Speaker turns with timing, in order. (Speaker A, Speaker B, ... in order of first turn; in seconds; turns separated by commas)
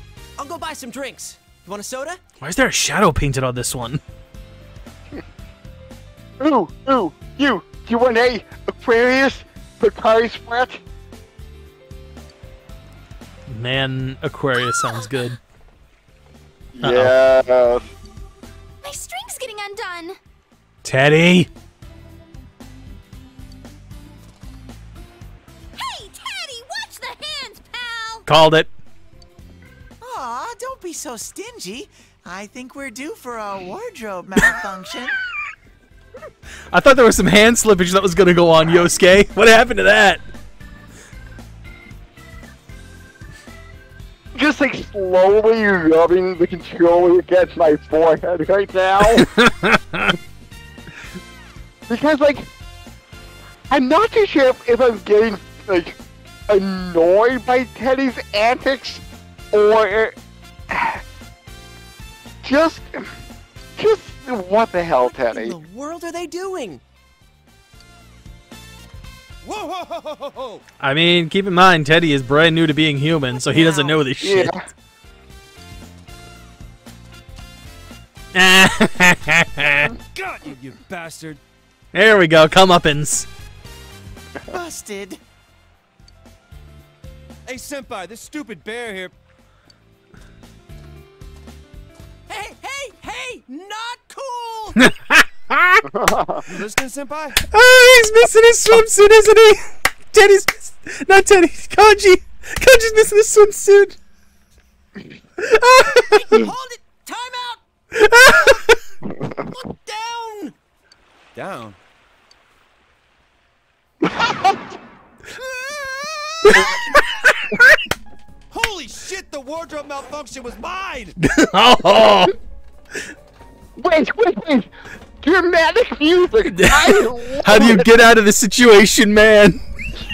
Speaker A: 0.4-2.2, Speaker B: 2.4-4.0, Speaker C: 6.4-10.8, Speaker B: 13.5-15.4, Speaker C: 16.8-17.9, Speaker B: 16.8-17.1, Speaker D: 18.8-20.2, Speaker B: 20.8-21.5, Speaker D: 25.8-28.3, Speaker B: 28.3-28.7, Speaker E: 30.0-35.2, Speaker B: 36.7-40.2, Speaker C: 44.4-49.3, Speaker B: 49.1-50.2, Speaker C: 51.9-52.5, Speaker C: 53.7-56.0, Speaker C: 56.5-60.1, Speaker C: 60.7-61.0, Speaker C: 62.4-63.1, Speaker C: 63.8-65.6, Speaker A: 65.0-66.8, Speaker F: 69.4-70.6, Speaker B: 70.8-74.6, Speaker A: 73.5-74.0, Speaker C: 74.2-74.6, Speaker B: 78.3-79.9, Speaker F: 80.0-81.4, Speaker B: 81.9-83.3, Speaker E: 84.5-85.2, Speaker F: 87.5-89.2, Speaker A: 92.3-94.8, Speaker B: 94.8-95.8, Speaker C: 95.8-96.4, Speaker F: 96.5-97.4, Speaker B: 97.4-104.0, Speaker B: 105.4-106.4, Speaker A: 105.8-107.6, Speaker B: 107.9-108.8, Speaker A: 108.3-108.6, Speaker A: 109.5-110.5, Speaker F: 111.3-111.8, Speaker C: 114.0-114.6, Speaker A: 115.3-116.7, Speaker B: 116.5-117.8, Speaker F: 118.5-121.2, Speaker B: 121.2-122.3, Speaker C: 123.8-128.0, Speaker B: 126.5-129.6